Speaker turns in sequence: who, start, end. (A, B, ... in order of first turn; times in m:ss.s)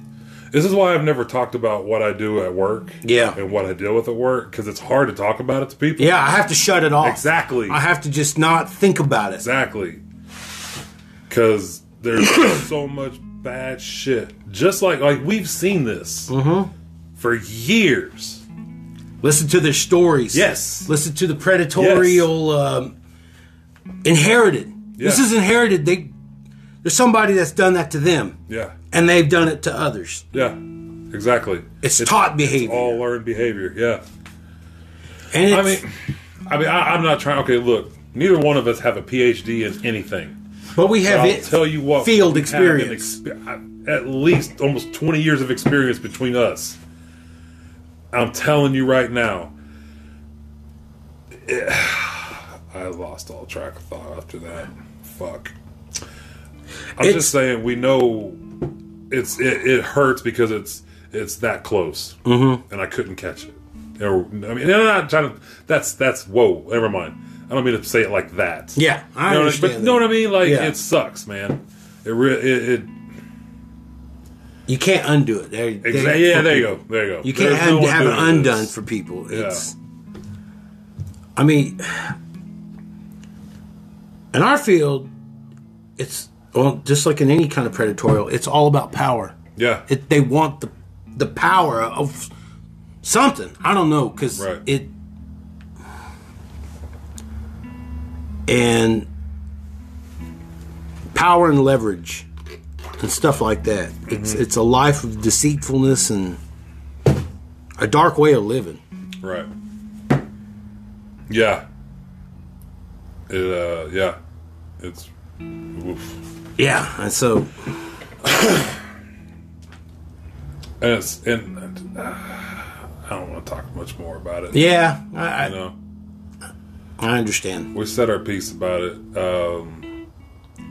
0:00.5-0:06.2 A
0:03.0-0:03.4 B
0:06.0-0:09.4 B
0:07.0-0:07.8 A
0:09.4-0:10.0 A
0:11.3-0:16.3 A
0:16.3-0:16.7 B
0:17.2-0:18.4 A
0:19.2-0:22.9 B
0:20.3-0:20.9 A
0:21.8-0:22.3 A
0:24.0-0:26.1 B
0:25.0-0:25.2 A
0:26.8-0:28.4 B
0:28.5-0:28.8 A
0:28.9-0:30.3 B
0:30.3-0:30.6 A
0:31.1-0:34.0 A
0:31.8-0:33.0 B
0:35.3-0:35.8 B
0:35.4-0:40.4 A
0:40.8-0:43.2 B
0:41.0-0:46.8 A
0:48.1-0:49.5 A
0:51.4-0:55.5 A
0:57.0-0:57.4 B
0:57.0-0:58.4 A
0:59.1-1:13.0 A
1:02.2-1:02.6 B
1:08.8-1:10.8 B
1:14.7-1:19.8 B
1:15.8-1:18.7 A
1:19.3-1:19.6 A
1:21.4-1:22.2 B
1:24.3-1:25.1 B
1:26.0-1:29.4 B
1:29.6-1:29.8 A
1:29.9-1:32.3 B
1:33.0-1:34.9 B
1:34.4-1:34.6 A
1:38.5-1:39.1 B
1:41.1-1:42.3 B
1:43.0-1:46.4 B
1:44.1-1:44.4 A
1:47.8-1:48.8 B
1:49.2-1:49.5 A
1:51.3-1:51.6 A
1:53.3-1:54.2 A
1:54.8-1:55.1 A
1:55.7-1:56.2 A
1:56.6-1:57.5 B
1:58.2-1:58.8 A
2:00.8-2:04.8 A
2:04.5-2:05.5 B
2:05.4-2:05.8 A
2:07.0-2:07.7 B
2:07.7-2:09.9 A